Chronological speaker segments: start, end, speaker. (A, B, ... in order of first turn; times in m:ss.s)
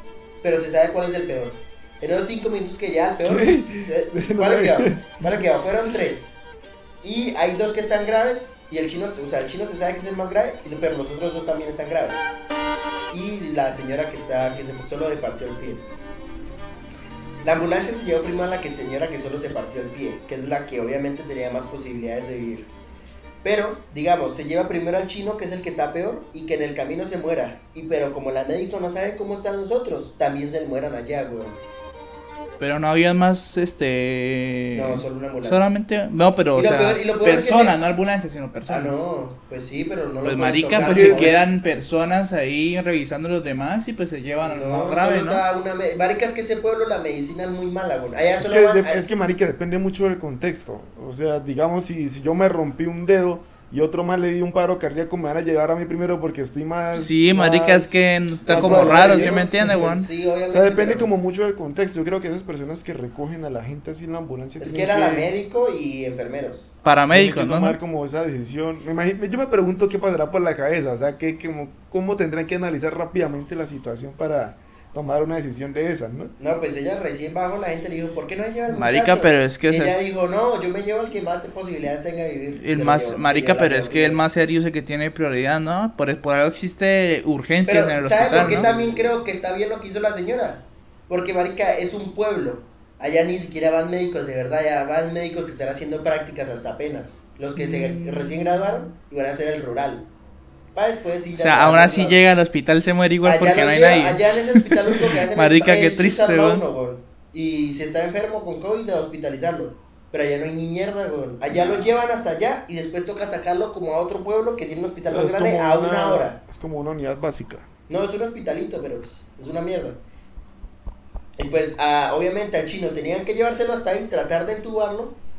0:00.4-0:06.4 A
0:03.2-0:05.4 B
0:07.0-0:12.3 A
0:13.1-0:15.9 A
0:17.4-0:22.7 A
0:23.4-0:31.6 A
0:32.6-0:39.0 C
0:34.7-0:35.7 A
0:36.5-0:37.7 A
0:38.7-0:41.4 A
0:40.2-0:45.4 C
0:40.8-0:41.4 B
0:44.4-0:49.0 A
0:48.4-0:57.9 B
0:56.9-1:00.1 C
0:58.4-1:01.1 A
0:58.5-0:59.5 B
1:00.5-1:05.3 B
1:04.6-1:06.7 A
1:06.8-1:07.8 C
1:07.1-1:16.3 B
1:16.4-1:24.2 A
1:18.7-1:20.0 C
1:22.6-1:28.7 C
1:27.6-1:40.1 A
1:28.2-1:29.0 B
1:37.6-1:38.9 C
1:40.7-1:42.2 A
1:41.4-1:44.8 C
1:43.2-1:56.4 A
1:45.3-1:46.6 C
1:55.1-1:57.7 B
1:57.9-2:00.0 A
2:01.4-2:05.2 A